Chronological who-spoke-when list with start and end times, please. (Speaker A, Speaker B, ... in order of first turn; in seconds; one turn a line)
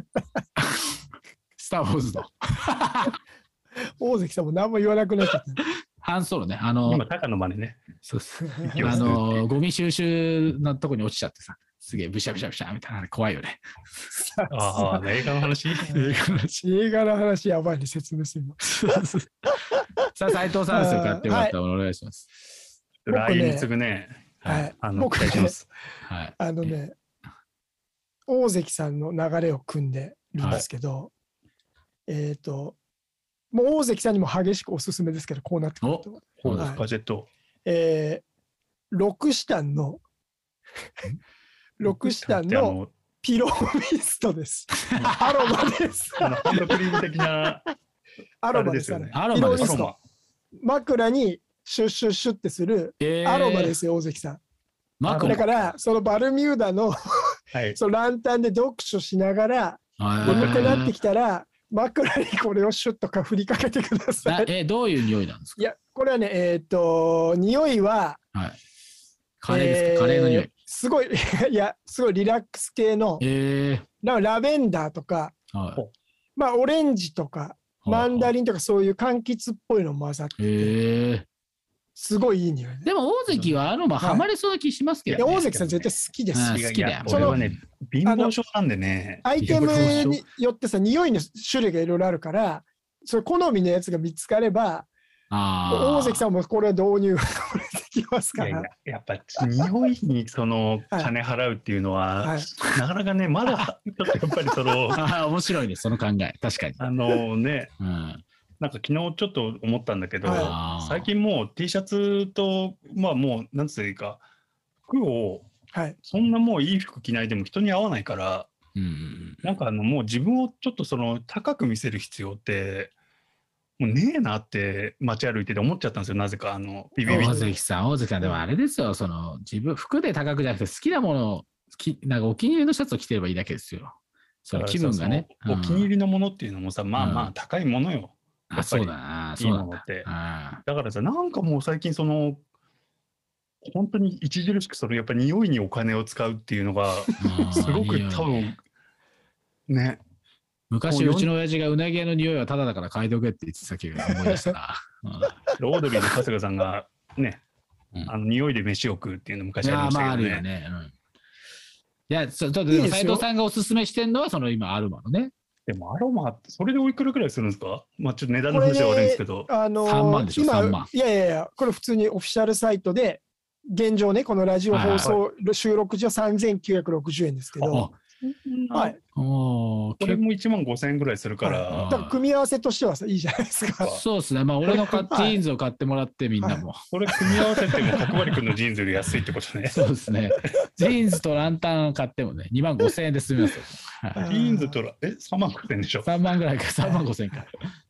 Speaker A: 0.6-0.9
Speaker A: 1.6-3.1
Speaker B: 4.0-5.6
Speaker A: 6.0-7.0
Speaker C: 6.9-7.8
Speaker A: 8.1-13.6
Speaker C: 8.6-9.5
Speaker B: 8.8-9.1
Speaker B: 14.3-15.1
Speaker C: 14.5-16.0
Speaker B: 15.8-18.7
Speaker A: 15.8-16.6
Speaker A: 18.6-19.3
Speaker A: 20.1-22.3
Speaker B: 20.7-21.6
Speaker C: 23.0-25.7
Speaker B: 23.1-23.7
Speaker B: 24.4-25.6
Speaker A: 26.1-26.8
Speaker B: 26.4-27.0
Speaker B: 28.3-31.1
Speaker A: 30.4-30.7
Speaker B: 32.1-32.8
Speaker B: 33.5-36.8
Speaker A: 35.8-36.8
Speaker C: 36.4-37.3
Speaker B: 37.6-38.2
Speaker B: 38.9-40.0
Speaker B: 41.8-47.0
Speaker C: 41.8-42.9
Speaker A: 45.0-45.5
Speaker C: 46.2-47.6
Speaker B: 48.4-49.9
Speaker C: 48.5-50.0
Speaker A: 49.1-49.8
Speaker B: 50.6-54.4
Speaker A: 53.0-53.8
Speaker A: 55.0-55.7
Speaker C: 55.1-55.5
Speaker B: 55.2-64.5
Speaker C: 57.5-57.8
Speaker A: 60.0-60.9
Speaker C: 60.2-60.6
Speaker A: 64.3-65.6
Speaker B: 65.6-68.2
Speaker A: 69.4-70.5
Speaker B: 69.5-73.2
Speaker A: 73.2-73.9
Speaker B: 74.0-75.3
Speaker A: 75.5-75.8
Speaker B: 76.4-80.8
Speaker A: 77.8-78.3
Speaker A: 80.4-81.3
Speaker B: 82.0-82.9
Speaker A: 82.8-87.6
Speaker C: 83.3-83.6
Speaker B: 84.0-84.3
Speaker B: 85.2-87.4
Speaker C: 86.5-90.1
Speaker B: 88.0-88.3
Speaker B: 89.2-94.9
Speaker A: 89.4-90.2
Speaker A: 95.3-96.3
Speaker B: 95.7-98.7
Speaker C: 98.4-105.0
Speaker B: 102.2-102.5
Speaker A: 104.9-106.8
Speaker C: 106.8-107.8
Speaker A: 107.8-108.2
Speaker C: 108.6-114.2
Speaker B: 110.2-110.5
Speaker A: 110.2-111.1
Speaker C: 114.9-115.5
Speaker B: 115.7-116.0
Speaker C: 116.0-118.5
Speaker A: 118.8-119.4
Speaker C: 119.4-122.9
Speaker C: 123.8-127.5
Speaker B: 127.0-127.5
Speaker A: 127.1-135.9
Speaker C: 134.5-140.1
Speaker A: 137.0-137.3
Speaker A: 138.5-140.6
Speaker C: 140.6-142.4
Speaker C: 143.6-148.6
Speaker A: 147.2-148.5
Speaker C: 149.7-150.0
Speaker A: 150.7-155.4
Speaker C: 150.9-151.3
Speaker B: 154.1-154.5
Speaker C: 155.6-157.4
Speaker C: 158.1-160.4
Speaker A: 159.6-160.9
Speaker A: 162.1-165.3
Speaker B: 162.7-163.3
Speaker C: 165.7-169.5
Speaker B: 168.5-177.9
Speaker A: 169.8-170.9
Speaker A: 174.7-175.2
Speaker C: 175.0-175.2
Speaker A: 177.6-177.9
Speaker C: 178.2-179.0
Speaker A: 179.2-180.2
Speaker C: 180.0-182.1
Speaker B: 181.4-183.9
Speaker A: 181.7-182.2
Speaker A: 183.8-187.4
Speaker B: 184.7-185.4
Speaker C: 186.9-189.8
Speaker A: 189.7-194.2
Speaker B: 194.1-194.8
Speaker C: 194.2-196.1
Speaker A: 196.0-197.6